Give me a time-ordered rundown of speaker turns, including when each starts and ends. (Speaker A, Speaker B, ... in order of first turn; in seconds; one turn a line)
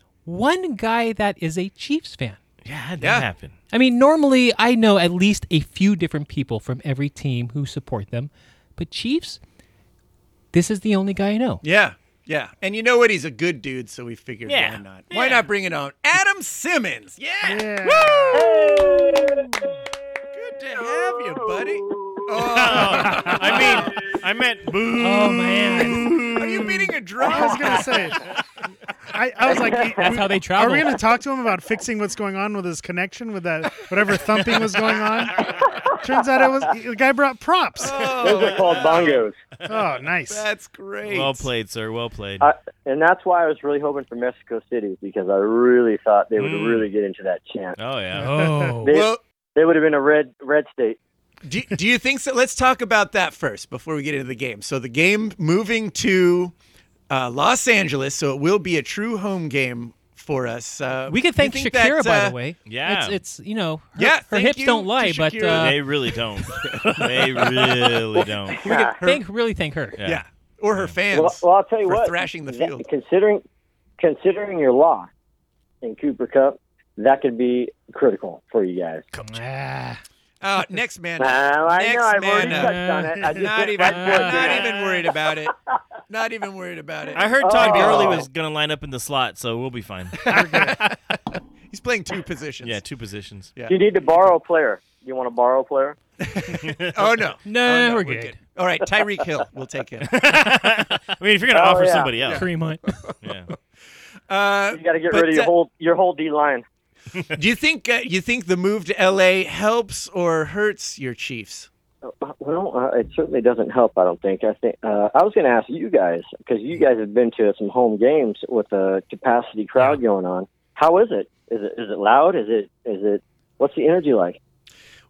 Speaker A: 0.3-2.4
Speaker B: 2.6-3.5
Speaker C: 3.0-3.3
Speaker A: 3.7-9.4
Speaker A: 10.5-11.6
Speaker C: 11.6-19.5
Speaker B: 14.5-15.5
Speaker D: 17.4-18.6
Speaker E: 18.4-19.6
Speaker C: 20.3-23.9
Speaker E: 20.8-22.6
Speaker B: 22.5-26.6
Speaker D: 22.7-23.4
Speaker E: 23.2-24.1
Speaker A: 25.0-26.2
Speaker D: 25.6-28.2
Speaker C: 26.1-28.1
Speaker E: 27.3-27.5
Speaker D: 29.1-38.1
Speaker E: 29.5-30.2
Speaker A: 30.0-31.0
Speaker B: 35.3-35.7
Speaker E: 35.7-36.0
Speaker C: 37.8-39.2
Speaker E: 38.1-39.4
Speaker B: 38.7-39.0
Speaker D: 39.7-40.5
Speaker C: 40.3-41.5
Speaker B: 41.0-42.5
Speaker E: 42.4-47.8
Speaker B: 46.4-46.9
Speaker B: 47.8-48.5
Speaker A: 48.2-49.0
Speaker D: 48.2-48.8
Speaker E: 48.8-51.0
Speaker C: 48.9-49.2
Speaker C: 51.4-56.5
Speaker C: 57.1-62.4
Speaker A: 61.1-65.8
Speaker B: 62.7-63.2
Speaker C: 64.0-65.9
Speaker B: 65.5-68.7
Speaker C: 66.5-67.1
Speaker A: 66.7-67.1
Speaker E: 68.5-69.0
Speaker C: 68.6-69.2
Speaker A: 69.0-70.0
Speaker B: 70.0-70.2
Speaker C: 70.0-72.8
Speaker E: 71.1-73.4
Speaker E: 74.0-75.1
Speaker E: 75.8-79.1
Speaker A: 79.2-80.0
Speaker C: 80.4-85.5
Speaker E: 81.2-84.8
Speaker A: 82.4-83.2
Speaker A: 83.8-84.6
Speaker C: 86.1-88.2
Speaker B: 87.2-90.7
Speaker E: 87.4-88.3
Speaker C: 90.2-90.8
Speaker D: 90.3-90.8
Speaker C: 91.7-92.8
Speaker B: 92.6-93.5
Speaker E: 93.7-96.0
Speaker C: 96.2-100.2
Speaker B: 96.5-97.0
Speaker A: 97.5-98.4
Speaker B: 100.0-102.5
Speaker E: 101.5-102.2
Speaker C: 102.2-103.2
Speaker A: 102.3-102.8
Speaker B: 103.2-103.5
Speaker C: 104.3-105.5
Speaker E: 104.7-106.6
Speaker C: 107.3-111.7
Speaker E: 112.0-124.4